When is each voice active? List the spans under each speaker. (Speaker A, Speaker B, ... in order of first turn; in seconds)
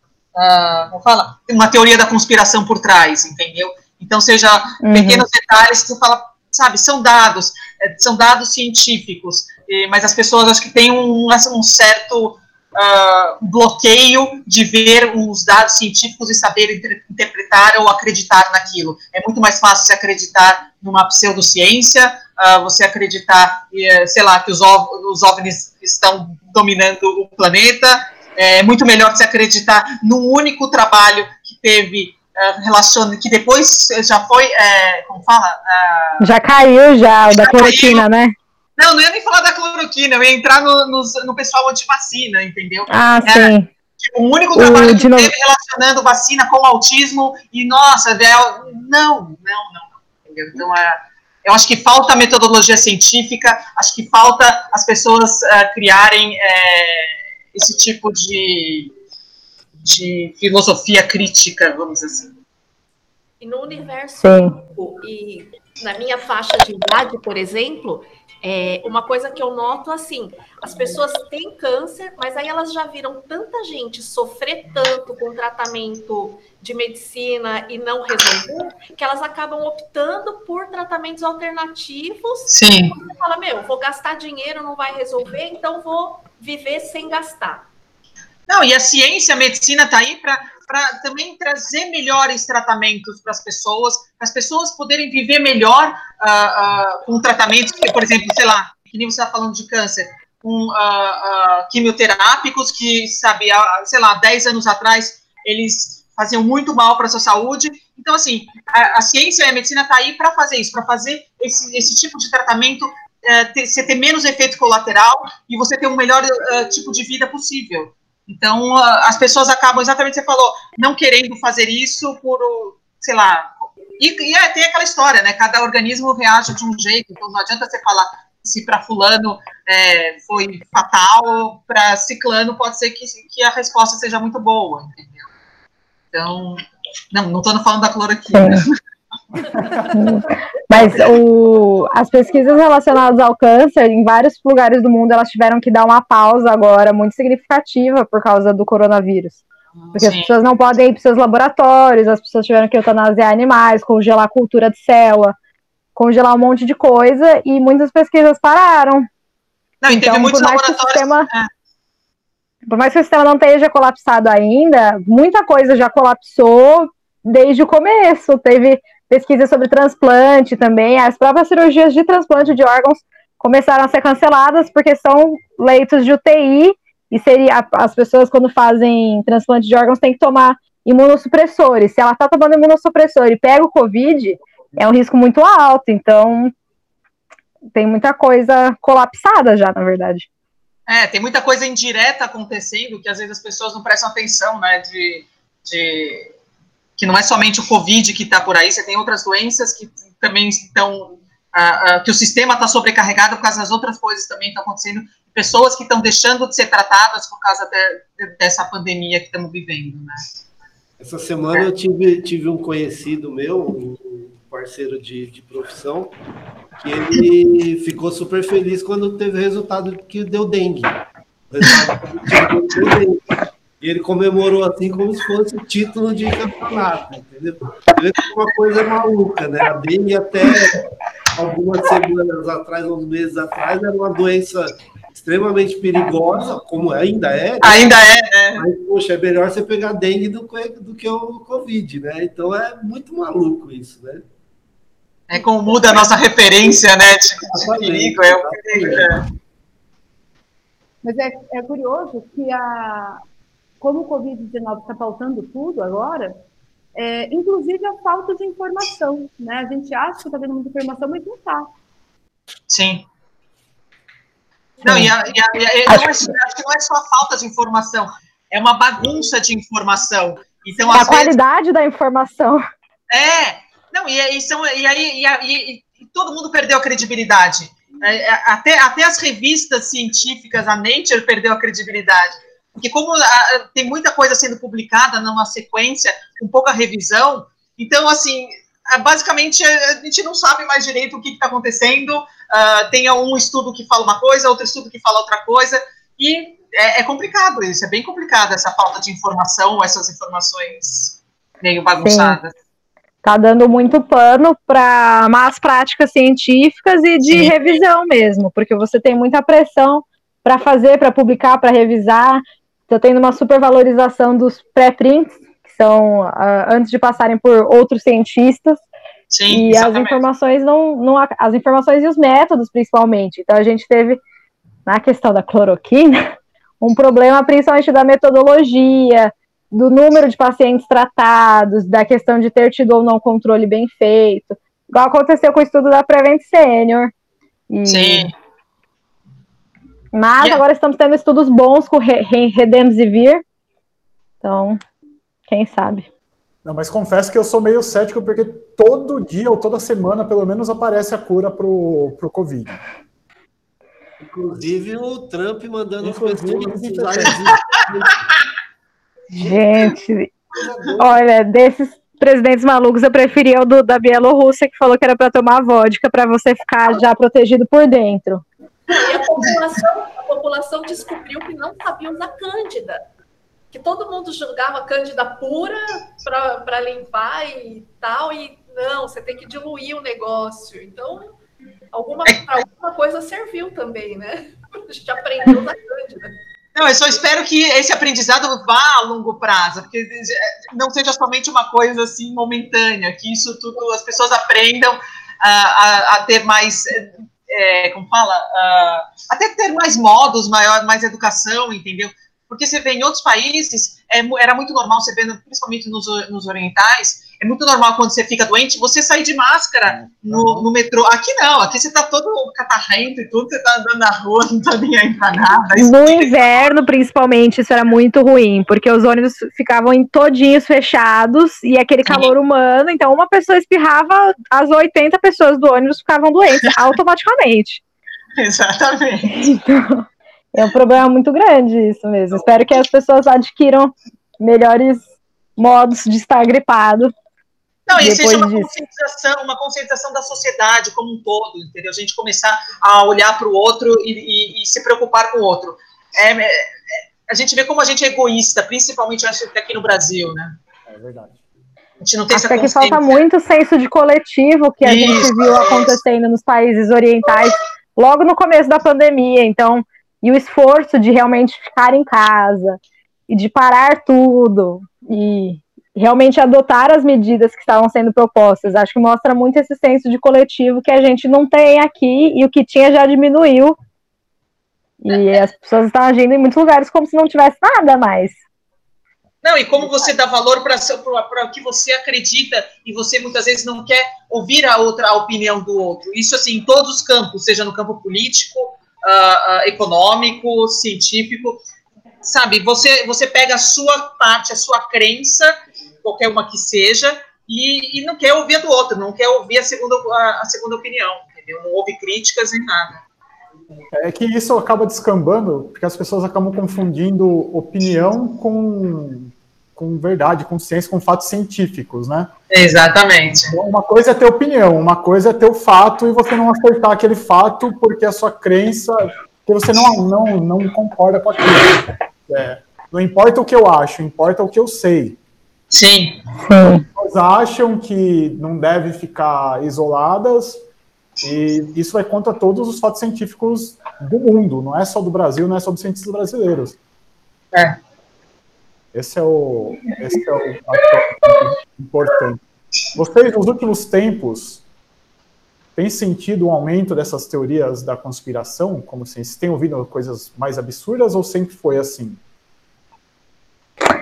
Speaker A: 0.3-36.3, 37.3-38.1, 38.8-58.9, 59.8-62.3, 82.5-83.0, 88.5-135.3, 136.1-138.7, 149.9-150.3, 159.8-161.5, 190.9-196.3, 197.0-210.2, 237.6-238.6, 245.3-249.2, 262.7-263.1, 264.8-271.4, 273.1-302.5, 307.3-307.8, 319.3-320.2, 337.9-338.3, 382.3-382.5, 386.8-416.7, 422.1-422.3, 428.4-429.5, 437.9-450.6, 452.0-453.2, 454.8-456.0, 479.4-491.6, 492.2-503.0, 512.5-513.5, 525.7-526.2, 537.5-537.8
Speaker B: 4.8-5.2, 36.2-38.4, 42.9-43.7, 44.5-45.3, 64.2-64.5, 138.3-138.6, 139.9-149.4, 150.0-155.3, 155.9-159.1, 159.9-161.3, 162.7-186.5, 187.8-190.3, 264.8-265.1, 265.9-266.3, 270.9-272.6, 302.0-302.4, 303.2-318.8, 319.5-324.2, 324.9-326.2, 326.8-337.1, 337.7-338.3, 340.1-343.4, 344.4-344.8, 345.5-346.1, 359.3-360.3, 361.0-368.4, 415.8-427.8, 429.3-435.0, 435.6-437.1, 438.0-438.7, 452.3-473.8, 475.0-478.4, 526.5-526.9
Speaker C: 63.4-87.7, 368.9-373.0, 373.7-381.3, 381.9-386.4
Speaker D: 139.5-140.1, 346.6-352.8, 356.0-357.5, 409.9-410.7, 450.9-451.4, 503.9-512.3, 513.5-525.2, 527.0-530.6, 531.2-536.8, 538.9-542.4, 543.0-544.6, 545.8-552.2
Speaker E: 211.0-216.2, 216.8-221.0, 221.5-223.2, 223.8-237.9, 238.6-244.3, 245.7-246.0, 247.4-249.2, 354.2-358.4, 360.5-361.1
Speaker F: 251.0-253.2, 253.8-256.4, 256.9-261.7